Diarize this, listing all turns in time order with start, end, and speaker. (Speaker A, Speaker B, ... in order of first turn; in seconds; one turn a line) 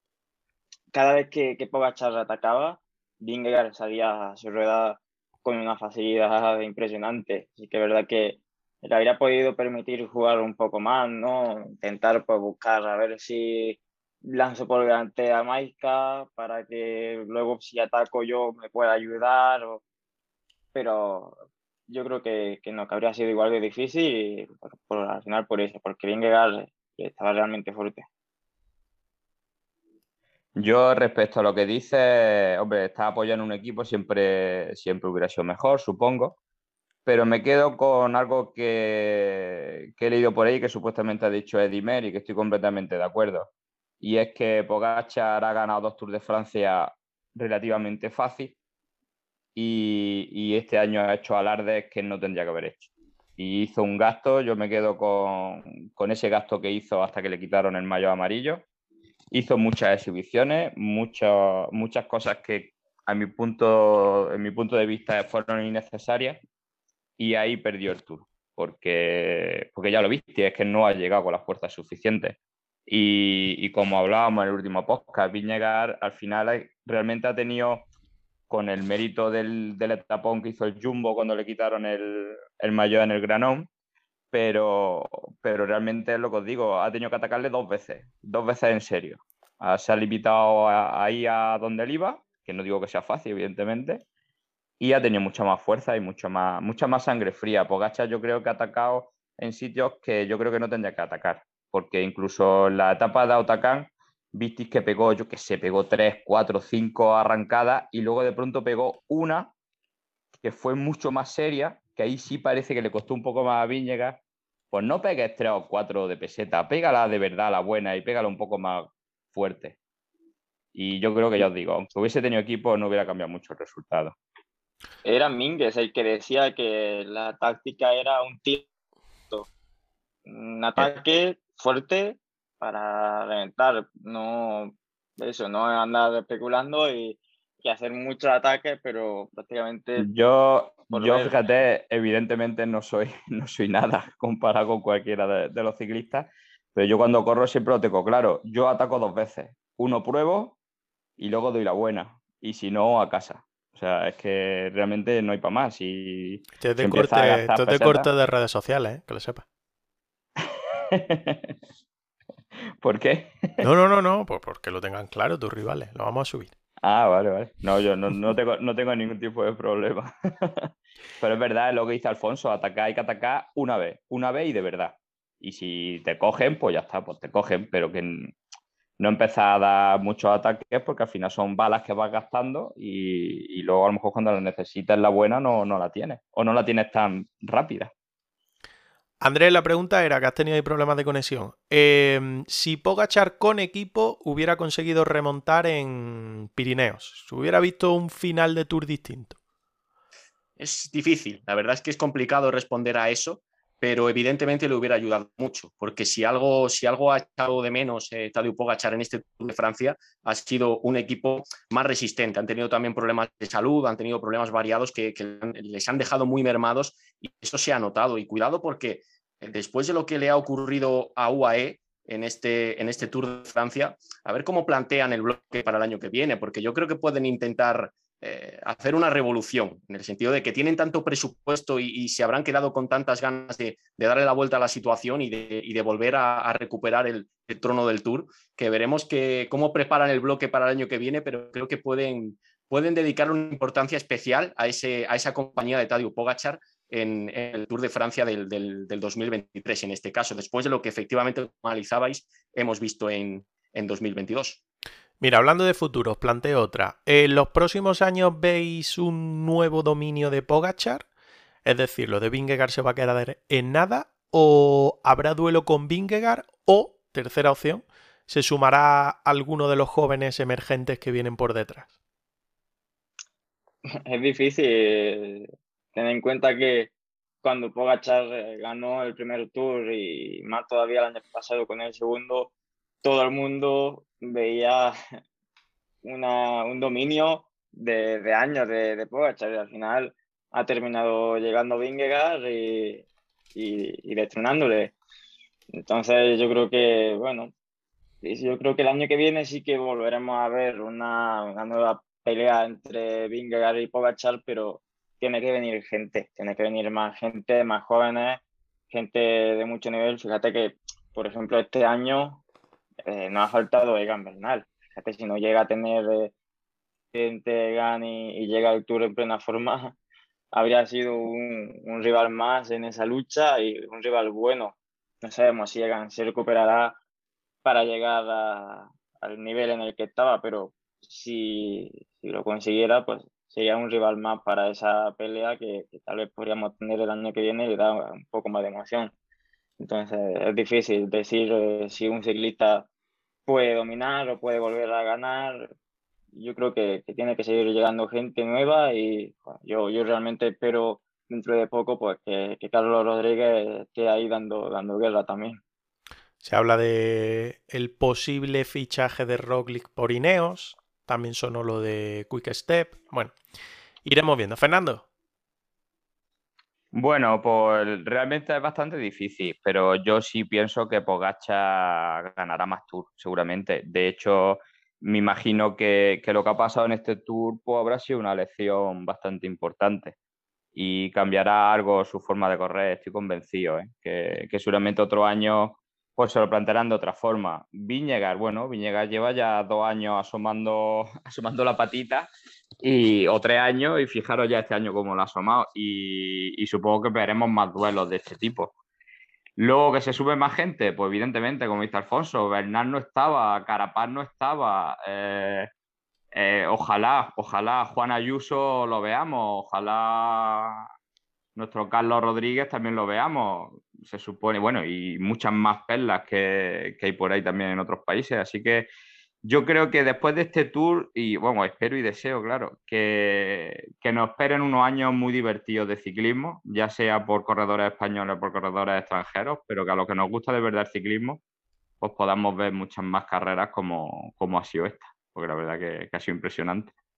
Speaker A: 0.9-19.8
Speaker A: 20.7-21.4
Speaker A: 21.9-28.1
Speaker B: 30.6-36.4
Speaker B: 37.0-48.5
Speaker B: 49.5-58.6
Speaker B: 59.3-66.4
Speaker B: 67.2-72.4
Speaker B: 72.9-77.9
Speaker B: 78.5-83.7
Speaker B: 84.3-94.0
Speaker B: 94.8-109.5
Speaker B: 110.4-114.2
Speaker B: 114.7-119.8
Speaker B: 120.7-124.2
Speaker A: 125.0-128.7
Speaker A: 130.3-140.1
Speaker B: 140.0-150.6
Speaker A: 140.9-141.4
Speaker B: 151.2-158.1
Speaker C: 156.6-159.4
Speaker B: 160.4-161.5
Speaker B: 162.8-163.7
Speaker C: 163.6-166.5
Speaker B: 166.8-178.3
Speaker B: 179.0-187.9
Speaker C: 189.2-199.4
Speaker D: 200.6-254.6
Speaker C: 255.2-261.1
Speaker C: 261.6-271.9
Speaker A: 274.0-276.9
Speaker A: 277.4-282.5
Speaker A: 283.0-284.9
Speaker A: 286.0-294.9
Speaker A: 295.7-297.5
Speaker A: 298.2-312.4
Speaker A: 313.1-316.3
Speaker A: 317.1-319.9
Speaker A: 320.5-327.0
Speaker A: 327.6-339.1
Speaker A: 339.8-342.9
Speaker A: 343.4-345.7
Speaker A: 346.3-355.6
Speaker C: 356.4-363.4
Speaker C: 364.0-365.0
Speaker B: 366.9-380.1
Speaker B: 380.7-392.3
Speaker B: 392.8-398.7
Speaker B: 399.6-405.7
Speaker B: 406.3-410.9
Speaker B: 411.6-418.9
Speaker B: 419.4-431.4
Speaker B: 432.0-436.9